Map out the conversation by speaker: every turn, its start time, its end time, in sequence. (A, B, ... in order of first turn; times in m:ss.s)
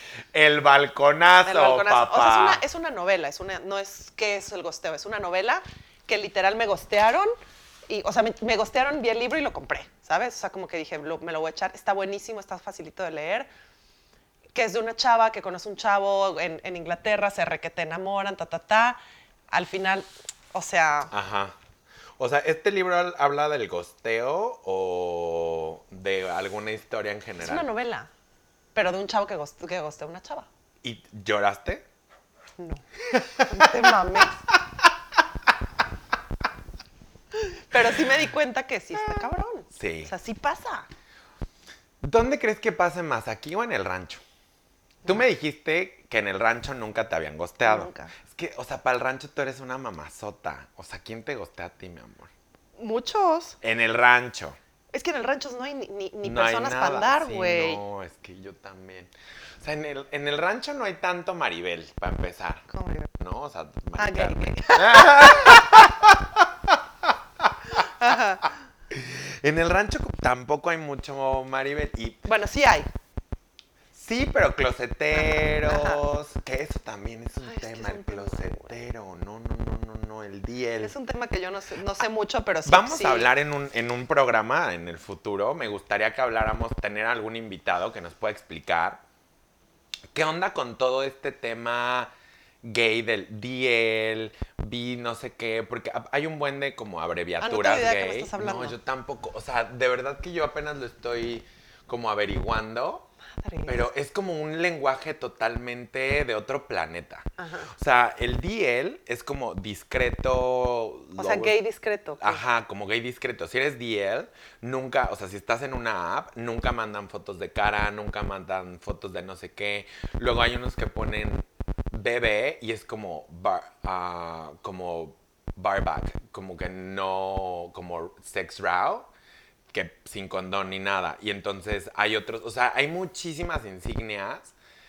0:00.3-0:02.6 A
0:01.4-0:07.3 B
0:07.9-0:13.5 B
0:14.6-0:19.0 B
0:19.5-0:21.1 B
0:21.1-0:21.6 A
0:22.2-0:27.7 A
0:27.4-0:28.1 B
0:28.8-0:30.5 B
0:30.8-0:31.9 A
0:32.6-0:32.8 B
0:33.1-0:34.3 A
0:33.4-0:34.4 B
0:37.7-0:40.9 B
0:39.0-0:40.1 A
0:42.0-0:44.2 A
0:45.0-0:52.3 A
0:47.6-0:48.1 B
0:52.8-0:53.6 B
0:53.6-0:54.6 A
0:54.9-0:57.8 B
0:56.2-1:02.6 A
1:02.7-1:03.1 B
1:03.2-1:07.8 A
1:04.0-1:05.9 B
1:07.7-1:08.5 B
1:08.9-1:12.3 A
1:12.3-1:12.9 B
1:13.9-1:20.9 A
1:15.2-1:16.0 B
1:17.4-1:18.8 B
1:20.8-1:23.3 B
1:22.6-1:29.0 A
1:30.1-1:32.1 A
1:32.6-1:43.1 A
1:37.4-1:38.8 B
1:43.4-1:43.9 B
1:43.7-1:51.6 A
1:47.4-1:47.7 B
1:51.2-1:52.4 B
1:52.2-2:09.1 A
2:09.7-2:14.6 A